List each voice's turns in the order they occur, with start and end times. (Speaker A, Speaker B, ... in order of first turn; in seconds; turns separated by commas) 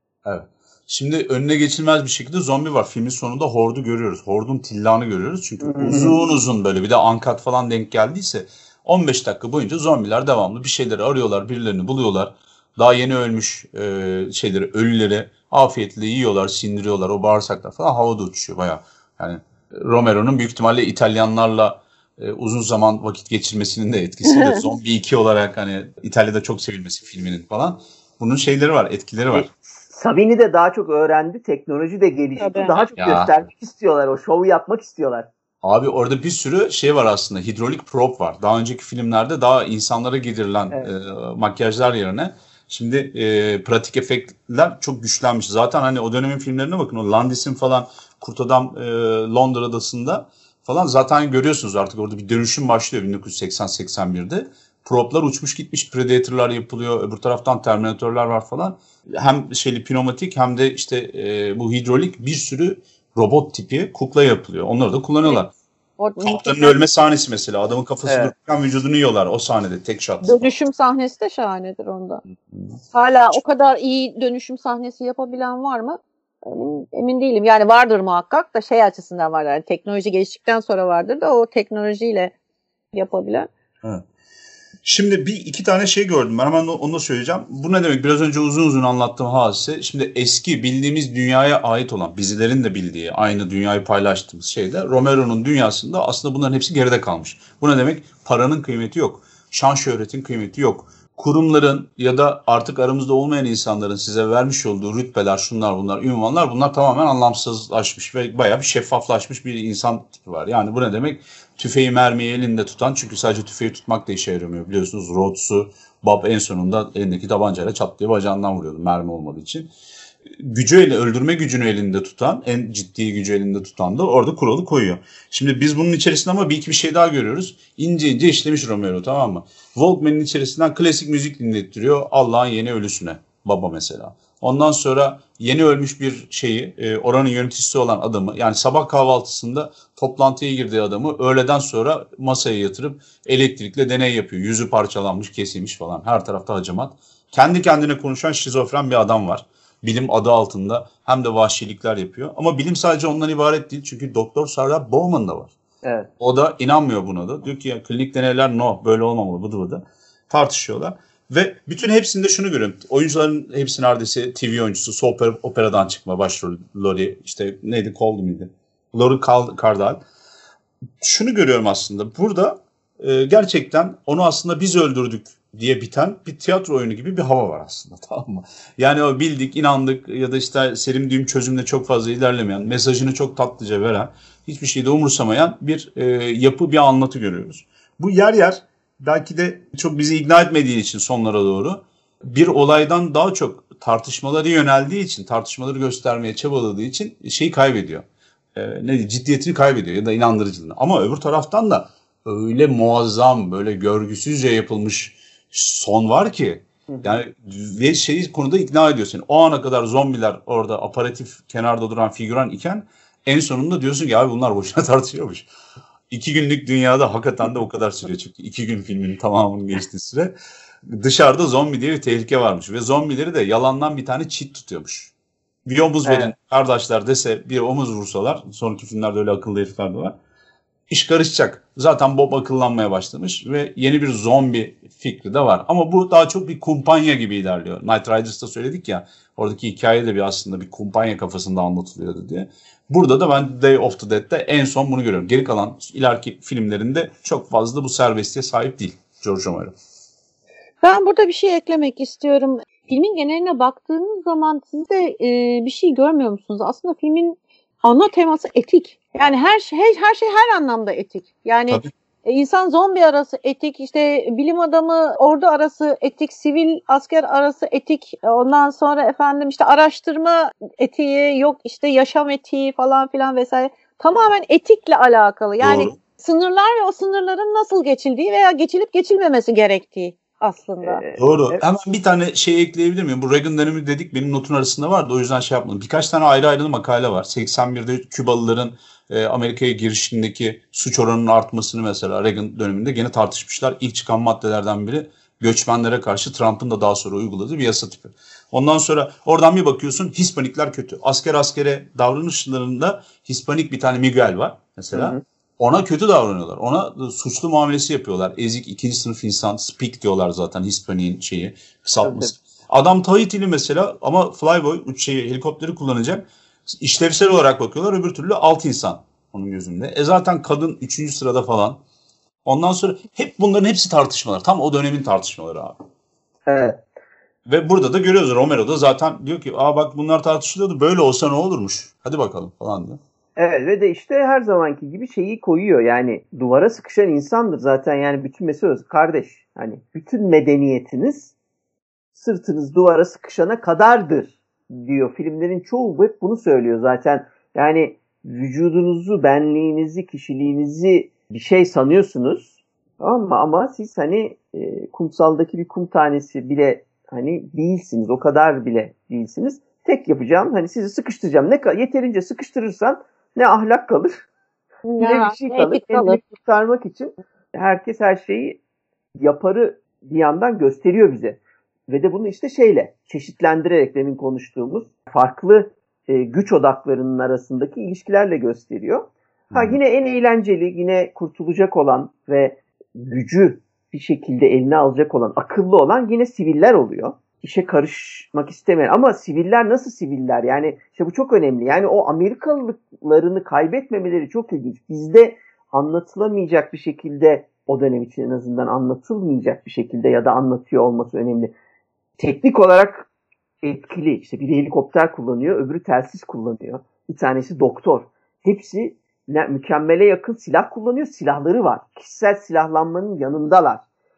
Speaker A: 0.2-29.5, Speaker B: 5.6-6.2, Speaker C: 24.3-24.6, Speaker B: 29.3-35.3, Speaker C: 32.4-32.8, Speaker A: 33.0-33.4, Speaker A: 35.6-65.5, Speaker C: 66.0-66.8, Speaker A: 66.2-70.5, Speaker B: 68.0-68.3, Speaker C: 70.2-72.2, Speaker C: 72.9-82.3, Speaker C: 82.9-83.5, Speaker A: 84.8-119.7, Speaker A: 120.3-155.6, Speaker B: 155.8-156.1, Speaker A: 156.2-170.0, Speaker A: 171.0-215.5, Speaker B: 206.9-207.2, Speaker A: 216.1-220.3, Speaker A: 220.9-225.1, Speaker A: 225.7-230.2, Speaker B: 226.1-226.3, Speaker A: 230.9-249.7, Speaker C: 250.8-281.0, Speaker A: 275.6-275.9, Speaker B: 280.8-281.6, Speaker A: 281.2-321.8, Speaker B: 304.9-305.2, Speaker B: 312.0-312.3, Speaker A: 322.4-325.8, Speaker B: 326.5-326.8, Speaker A: 327.4-333.0, Speaker B: 333.4-341.3, Speaker B: 342.1-364.2, Speaker C: 364.9-366.2, Speaker B: 365.0-368.6, Speaker B: 369.2-401.5, Speaker A: 379.5-379.8, Speaker B: 402.2-403.1, Speaker B: 403.6-413.8